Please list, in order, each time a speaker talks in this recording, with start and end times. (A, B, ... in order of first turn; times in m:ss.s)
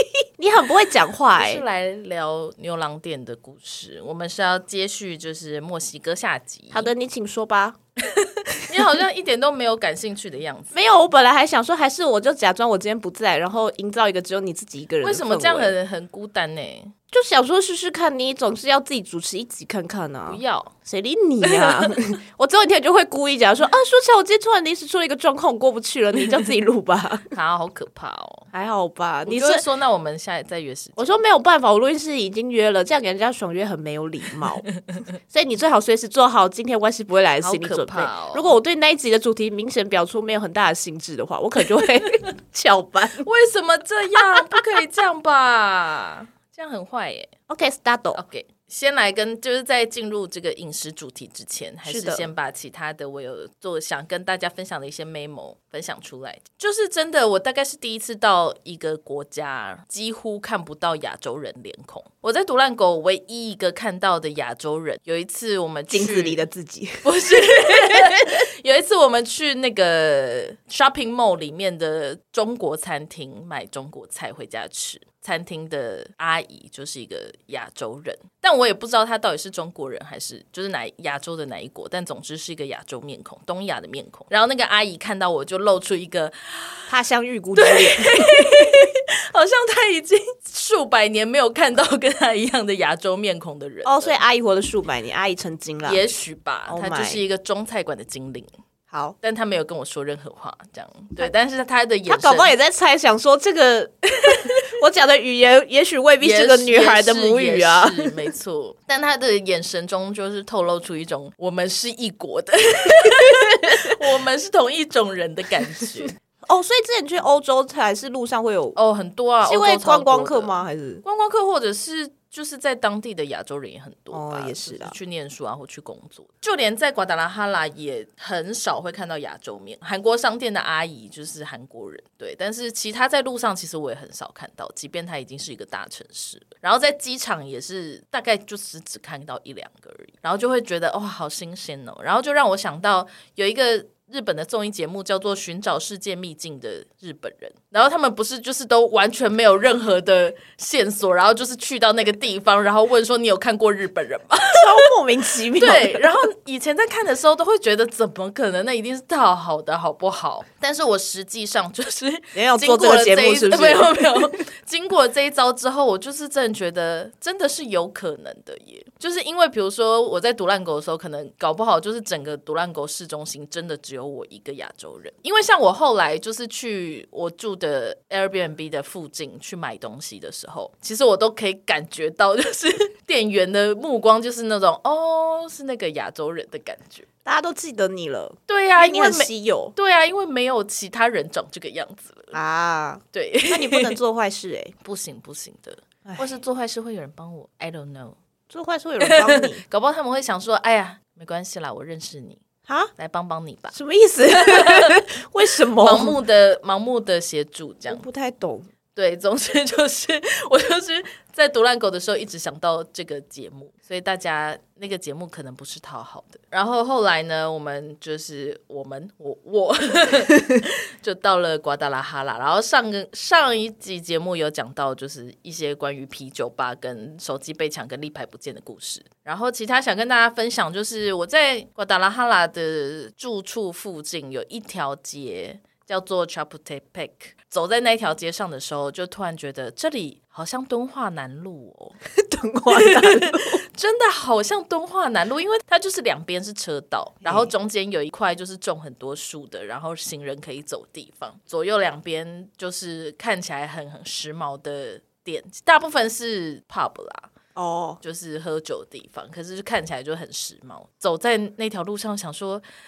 0:00.4-0:01.6 A
0:01.4-0:06.9 B
0:06.7-0:07.8 A
0:08.0-0:10.9 B
0:10.7-0:15.7 A
0:15.0-0:16.9 B
0:17.1-0:27.3 A
0:20.3-0:20.7 B
0:21.5-0:22.0 B
0:27.3-0:28.5 B
0:28.5-0:29.6 A
0:29.3-0:31.2 B
0:31.0-0:34.7 A
0:35.3-0:43.3 A
0:37.4-0:38.6 B
0:43.2-0:47.3 B
0:47.5-0:48.2 A
0:48.2-1:06.4 B
0:51.8-0:52.3 A
1:05.9-1:07.0 A
1:07.0-1:26.9 B
1:07.7-1:08.2 A
1:26.9-1:28.9 A
1:27.6-1:34.2 B
1:33.8-1:36.0 A
1:35.9-1:38.5 B
1:36.7-1:37.2 A
1:38.9-1:39.2 A
1:39.2-1:42.5 B
1:42.1-1:48.1 A
1:46.2-1:56.2 B
1:53.1-1:53.9 A
1:56.4-1:58.8 A
1:58.8-2:34.9 B
1:59.4-2:01.0 A
2:04.1-2:05.0 A
2:34.5-2:36.1 A
2:35.5-3:07.1 B
2:42.4-2:44.3 A
3:07.3-3:09.7 A
3:08.5-3:12.4 B
3:12.3-3:14.7 A
3:13.1-3:14.0 B
3:14.8-3:18.2 B
3:18.5-3:19.6 A
3:19.0-3:22.4 B
3:23.0-3:23.8 B
3:23.7-3:26.2 A
3:24.4-3:25.0 B
3:25.6-3:28.1 B
3:27.9-3:28.7 A
3:29.0-4:02.0 B
4:02.2-4:03.6 A
4:02.7-4:17.3 B
4:07.2-4:07.5 A
4:17.6-4:18.0 A
4:18.0-4:22.6 B